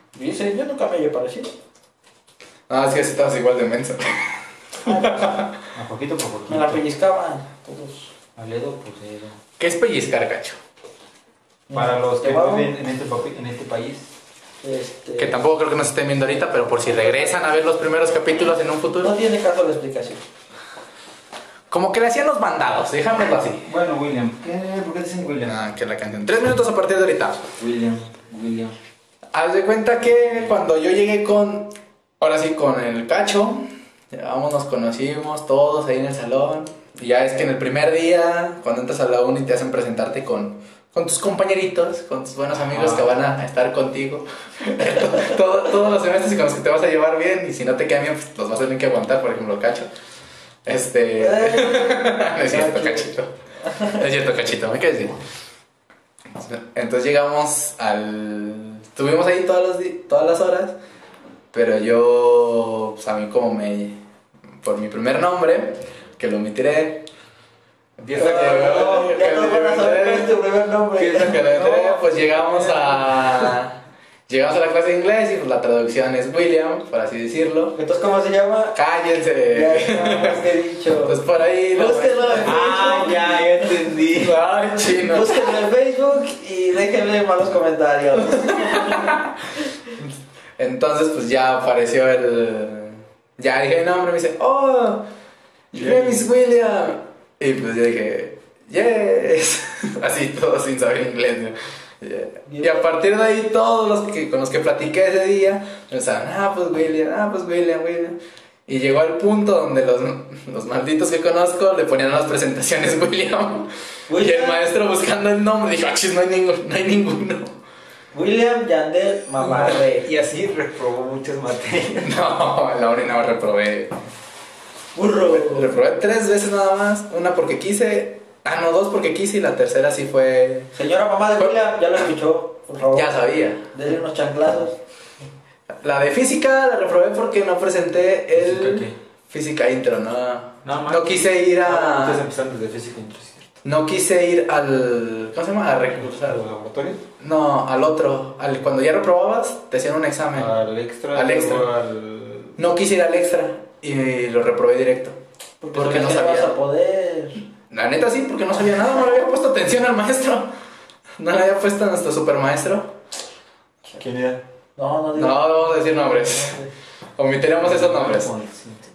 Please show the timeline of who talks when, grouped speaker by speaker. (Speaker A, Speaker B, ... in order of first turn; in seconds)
Speaker A: 0.1-1.5, 4.8-5.4, 6.5-8.1, 11.7-12.7, 14.6-15.4, 16.9-17.3, 19.0-20.2, 51.2-53.1, 53.7-54.0, 68.2-71.4, 77.7-78.8, 79.5-81.2, 81.7-83.8, 85.0-89.2, 102.5-102.9, 114.1-114.6, 118.1-120.1, 124.9-125.7, 130.7-134.8, 155.6-157.4, 164.8-166.7
Speaker B: 2.7-5.6, 9.6-10.6, 15.2-19.1, 21.7-23.7, 25.4-27.5, 29.3-49.9, 50.6-53.3, 53.9-55.2, 56.4-60.8, 61.5-64.0, 64.6-67.1, 68.1-70.4, 71.0-77.8, 78.7-80.5, 81.0-83.0, 84.1-85.5, 88.3-89.3, 90.0-95.1, 95.7-117.5, 122.0-123.9, 125.2-130.7, 132.9-133.7, 135.8-142.2, 143.6-146.4, 147.2-150.5, 151.1-151.7, 152.6-155.2, 155.7-156.5, 157.7-160.5, 161.2-162.9, 165.1-166.6, 167.2-168.3
Speaker C: 5.7-6.8, 8.3-9.4, 11.7-14.1, 23.6-25.6, 27.6-28.8, 42.7-43.1, 68.0-69.0, 71.0-73.5, 82.4-84.4, 95.8-96.2, 119.4-122.1, 138.3-138.9, 140.6-143.5, 146.1-147.0, 150.3-152.6, 164.0-164.4, 167.6-168.9